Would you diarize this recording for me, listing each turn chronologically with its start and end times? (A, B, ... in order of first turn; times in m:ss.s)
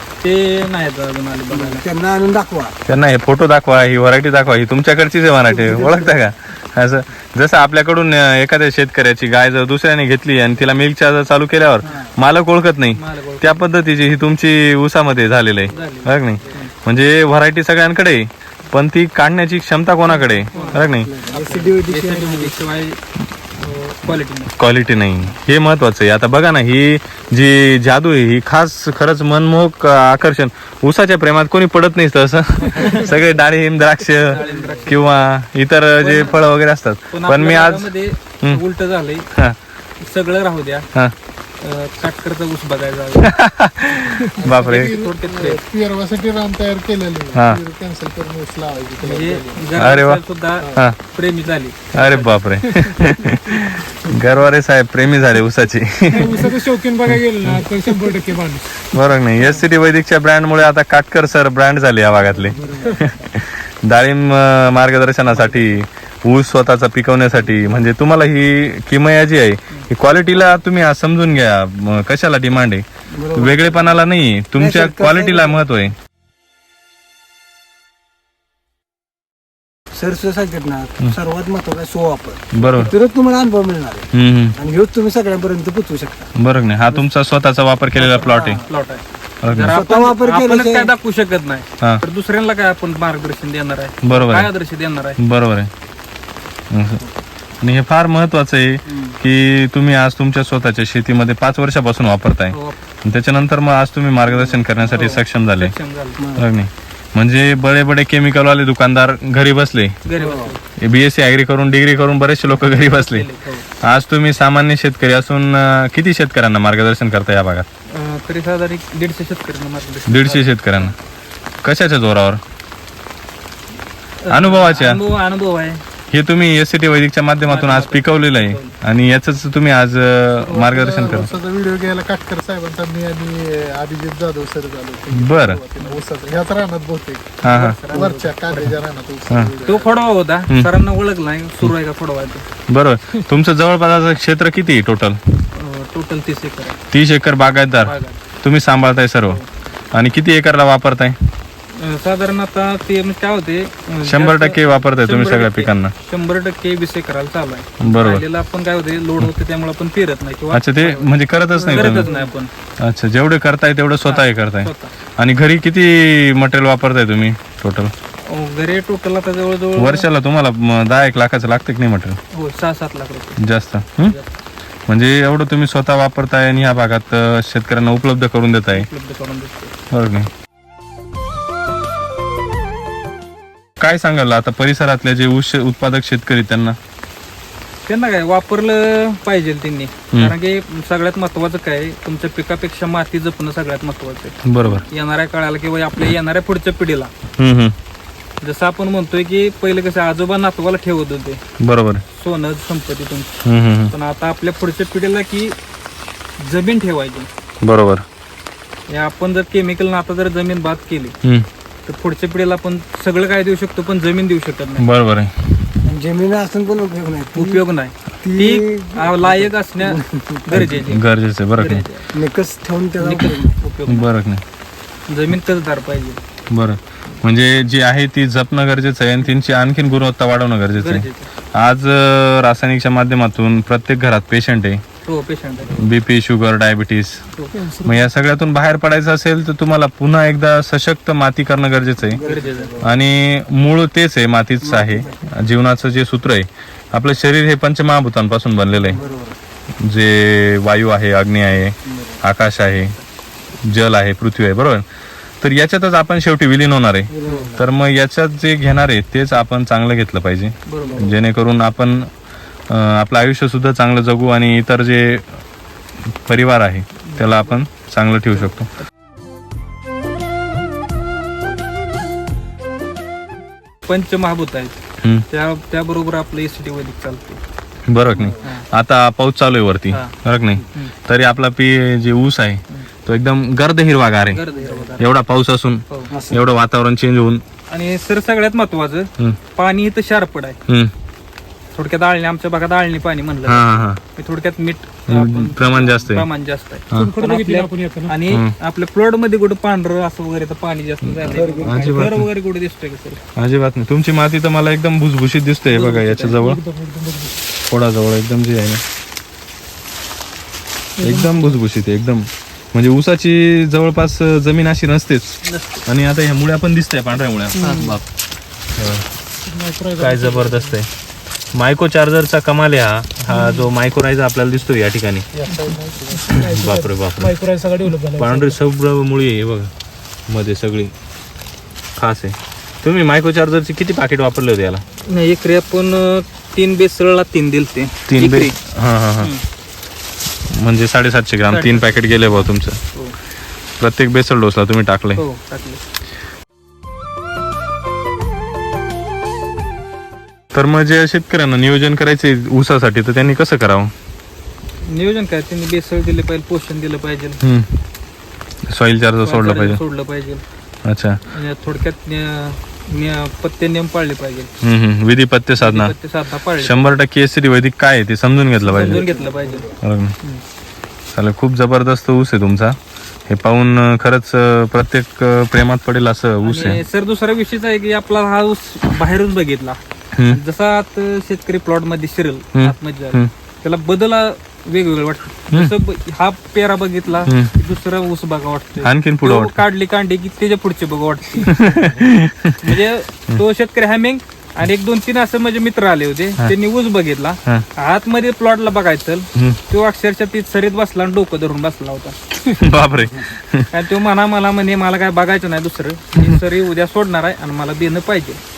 0:00.2-0:01.8 A
0:01.5-0:02.8 B
0:02.9-0:21.1 C
0:05.5-0:06.2 B
0:11.8-0:12.2 B
0:12.9-0:13.6 A
0:15.7-0:16.7 A
0:20.1-0:22.6 B
0:20.5-0:23.0 A
0:23.6-0:24.6 A
0:24.5-0:37.9 C
0:32.6-0:33.2 A
0:34.2-0:35.3 A
0:34.4-0:34.8 B
0:36.0-0:36.4 A
0:37.1-0:39.3 A
0:40.0-0:40.9 A
0:41.6-0:43.3 A
0:43.2-0:45.0 C
0:44.4-0:45.6 A
0:44.4-0:44.7 B
0:44.6-0:49.7 D
0:47.3-0:47.6 C
0:49.0-0:52.4 A
0:49.8-0:50.2 C
0:51.9-0:56.5 C
0:56.1-0:58.8 E
0:57.1-0:57.6 C
0:58.9-1:12.8 C
1:02.5-1:03.3 B
1:05.4-1:05.6 A
1:13.2-1:13.6 B
1:13.3-1:16.0 C
1:13.4-1:14.0 A
1:14.6-1:15.6 B
1:19.9-1:26.3 B
1:22.5-1:22.9 C
1:24.1-1:24.6 C
1:26.4-1:28.6 C
1:28.0-1:35.2 A
1:28.3-1:28.6 B
1:29.4-1:29.8 C
1:29.6-1:30.9 B
1:34.0-1:34.5 C
1:35.2-1:35.7 C
1:36.7-1:37.0 C
1:37.6-1:45.7 C
1:38.9-1:39.2 B
1:42.5-1:42.8 A
1:44.2-1:44.7 B
1:44.9-1:46.2 A
1:46.2-1:46.5 B
1:46.4-1:50.0 C
1:50.0-1:50.6 A
1:50.2-1:50.5 B
1:50.8-1:53.3 C
1:52.6-1:53.7 A
1:53.8-1:57.7 C
1:57.9-2:01.0 A
2:00.1-2:01.0 C
2:01.6-2:02.4 C
2:04.2-2:05.8 A
2:04.3-2:05.0 C
2:06.1-2:11.3 C
2:07.4-2:08.8 A
2:10.5-2:17.4 D
2:10.9-2:11.4 A
2:15.1-2:15.6 C
2:17.4-2:17.8 C
2:17.4-2:18.8 A
2:17.9-2:19.9 D
2:19.6-2:22.4 A
2:22.7-2:25.2 C
2:25.5-2:26.8 A
2:26.9-2:29.4 C
2:27.8-2:28.2 A
2:29.9-2:31.2 C
2:31.8-2:41.2 A
2:34.0-2:35.9 C
2:37.8-2:38.2 C
2:40.5-2:42.1 C
2:41.6-2:42.3 B
2:41.7-2:42.5 A
2:42.8-2:47.9 C
2:44.0-2:44.9 A
2:48.2-2:50.1 A
2:49.8-2:52.2 C
2:52.3-2:53.4 A
2:53.4-2:54.2 C
2:54.0-2:54.4 A
2:54.9-2:58.9 C
2:58.7-2:59.7 A
2:59.9-3:00.3 C
3:03.8-3:06.8 C
3:07.9-3:17.1 A
3:14.5-3:14.9 C
3:17.4-3:17.8 C
3:18.4-3:21.4 A
3:21.6-3:22.0 C
3:22.1-3:23.3 A
3:23.4-3:23.9 C
3:23.9-3:25.6 A
3:26.4-3:27.3 A
3:27.6-3:28.0 C
3:28.9-3:31.2 A
3:31.9-3:34.9 A
3:34.8-3:35.7 C
3:35.8-3:37.6 B
3:37.3-3:42.1 A
3:38.2-3:40.7 B
3:40.6-3:41.8 C
3:42.1-3:43.6 B
3:43.0-3:44.1 A
3:43.9-3:44.4 C
3:45.1-3:46.2 A
3:46.5-3:54.8 C
3:50.8-3:51.3 A
3:55.0-3:55.9 A
3:55.7-3:57.2 C
3:57.5-3:58.1 E
3:57.8-4:02.2 C
4:02.1-4:02.9 B
4:02.2-4:02.7 A
4:02.8-4:09.0 C
4:04.6-4:05.2 B
4:08.9-4:09.4 B
4:09.8-4:13.0 C
4:11.9-4:12.2 B
4:12.8-4:13.0 A
4:13.6-4:14.8 C
4:15.4-4:22.1 C
4:17.1-4:17.6 B
4:17.3-4:17.6 A
4:20.7-4:21.1 A
4:20.8-4:21.1 B
4:22.7-4:25.4 C
4:26.3-4:28.7 C
4:27.1-4:27.6 A
4:33.9-4:37.4 A
4:37.9-4:44.4 C
4:38.4-4:38.7 A
4:39.9-4:40.2 A
4:44.3-4:45.0 A
4:44.5-4:45.0 B
4:45.0-4:47.4 C
4:46.1-4:46.4 B
4:47.7-4:50.6 A
4:51.7-5:03.2 A
4:53.5-4:54.0 C
4:55.1-4:56.3 C
4:56.9-4:58.2 E
4:58.3-4:58.5 C
5:01.1-5:02.3 C
5:01.3-5:02.1 B
5:03.4-5:06.6 C
5:05.7-5:06.4 A
5:06.3-5:07.4 E
5:07.6-5:08.8 C
5:11.0-5:18.0 C
5:11.0-5:11.5 E
5:15.4-5:15.8 A
5:17.6-5:17.9 E
5:17.6-5:18.0 A
5:18.8-5:19.1 C
5:19.4-5:20.8 E
5:20.0-5:20.9 C
5:21.5-5:25.3 C
5:25.5-5:28.6 E
5:26.3-5:27.4 C
5:28.1-5:29.7 C
5:30.3-5:30.9 C
5:32.0-5:34.8 C
5:35.0-5:38.6 A
5:38.1-5:39.3 C
5:40.5-5:42.8 C
5:41.5-5:43.1 A
5:43.8-5:45.2 C
5:45.2-5:45.8 A
5:50.5-5:53.9 C
5:54.8-5:57.4 A
5:57.4-5:57.8 C
5:58.7-5:59.8 C
5:59.2-6:00.4 A
6:00.8-6:01.2 C
6:01.3-6:04.5 A
6:04.6-6:05.9 C
6:05.6-6:07.0 A
6:06.6-6:09.1 C
6:08.6-6:10.4 A
6:08.9-6:09.7 B
6:09.8-6:10.1 C
6:11.1-6:12.8 C
6:13.3-6:16.8 C
6:16.4-6:32.0 A
6:22.6-6:23.3 C
6:27.3-6:27.5 C
6:28.8-6:29.6 C
6:31.5-6:32.8 C
6:32.6-6:42.2 A
6:42.5-6:43.7 C
6:43.7-6:48.4 A